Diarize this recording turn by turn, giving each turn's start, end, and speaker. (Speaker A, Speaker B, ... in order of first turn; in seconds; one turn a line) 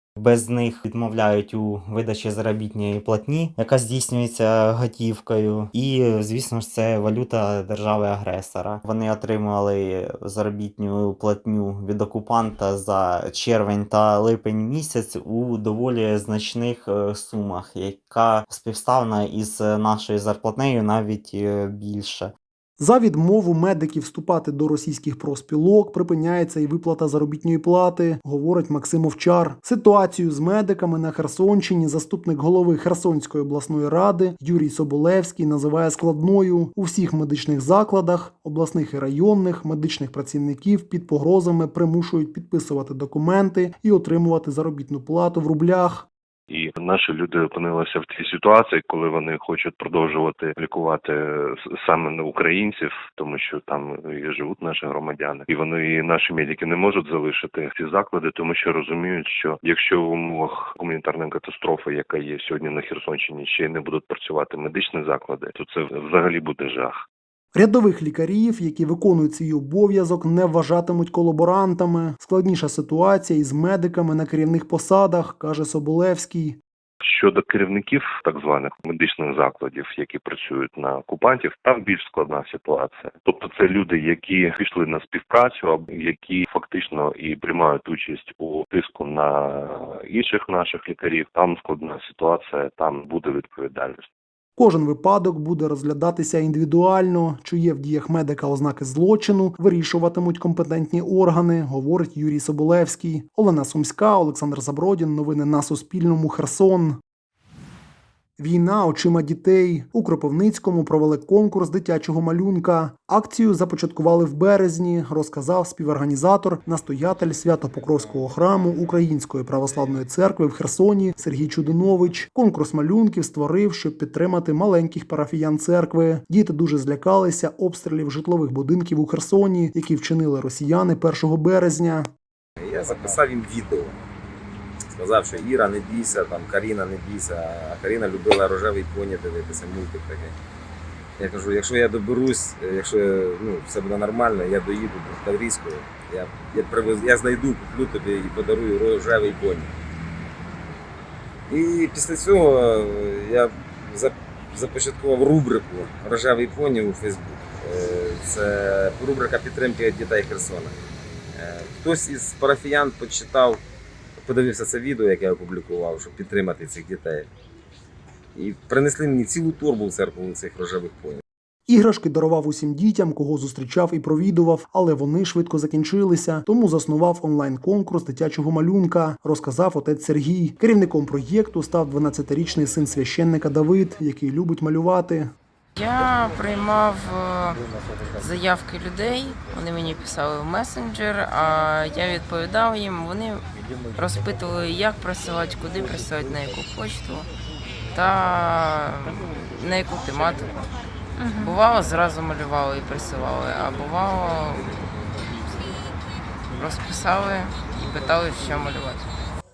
Speaker A: 0.2-22.3
Speaker B: 22.8-46.1
Speaker C: 46.5-67.0
Speaker B: 67.5-76.6
Speaker C: 77.0-94.0
Speaker B: 94.6-107.0
Speaker B: 108.4-132.1
Speaker D: 132.6-133.9
Speaker D: 134.9-140.3
Speaker D: 141.2-149.7
Speaker D: 151.5-160.7
Speaker D: 161.3-163.6
Speaker D: 164.2-167.3
Speaker D: 168.3-171.2
Speaker B: 171.7-185.3
Speaker E: 185.8-187.6
Speaker E: 188.1-193.4
Speaker E: 193.9-197.3
Speaker E: 197.9-200.6
Speaker E: 201.4-204.7
Speaker E: 206.6-209.1